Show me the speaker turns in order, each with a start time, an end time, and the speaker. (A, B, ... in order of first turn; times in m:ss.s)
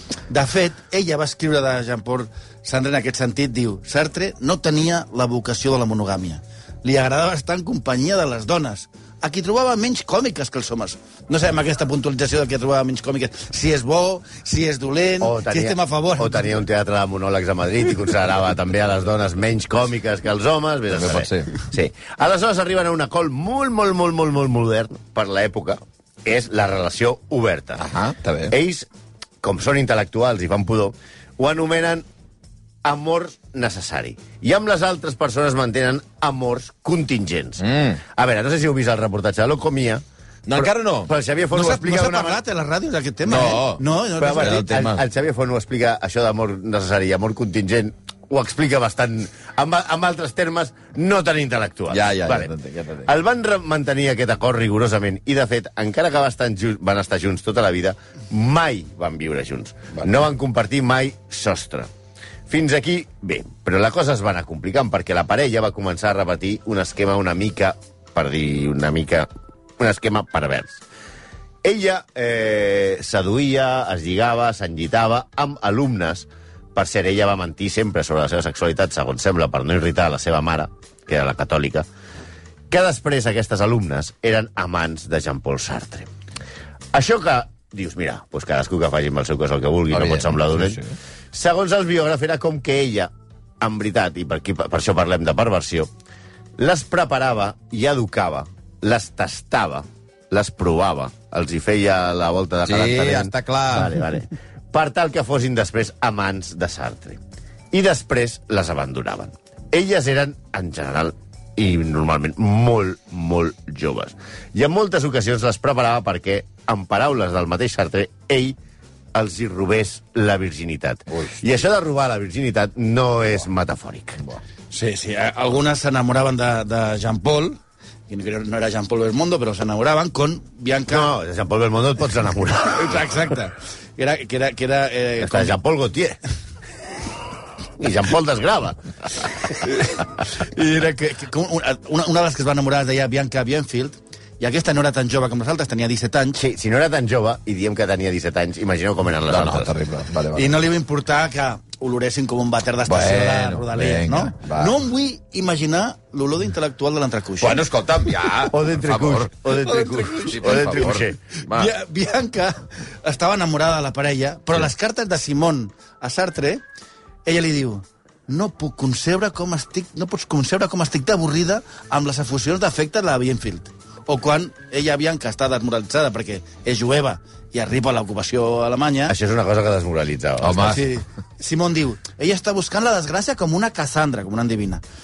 0:00.3-0:16.5 A
0:15.2-0:27.8 B
0:20.9-0:21.5 C
0:27.8-0:28.5 C
0:28.5-0:28.9 B
0:29.4-0:32.0 B
0:32.8-0:40.0 B
0:37.6-0:38.0 C
0:40.5-0:41.1 C
0:40.6-0:42.4 B
0:41.5-0:44.7 A
0:43.3-0:45.0 C
0:44.2-0:52.5 B
0:51.9-0:53.1 C
0:53.0-1:01.9 B
1:02.5-1:10.8 B
1:11.6-1:21.9 B
1:22.7-1:26.1 B
1:26.9-1:30.8 B
1:29.9-1:30.9 C
1:31.3-1:35.9 B
1:36.6-1:47.2 B
1:42.6-1:44.0 C
1:47.7-1:58.6 B
1:59.1-2:04.2 B
2:04.7-2:11.1 A
2:10.9-2:13.0 B
2:12.6-2:15.6 A
2:15.2-2:16.2 B
2:17.8-2:19.6 B
2:19.6-2:26.4 A
2:26.4-2:29.7 B
2:29.3-2:30.6 C
2:30.4-2:37.7 A
2:32.9-2:34.8 C
2:37.4-2:41.7 C
2:38.5-2:41.2 B
2:41.5-2:46.6 A
2:47.2-2:59.2 A
2:59.1-3:00.8 B
3:00.4-3:00.9 C
3:00.6-3:04.8 A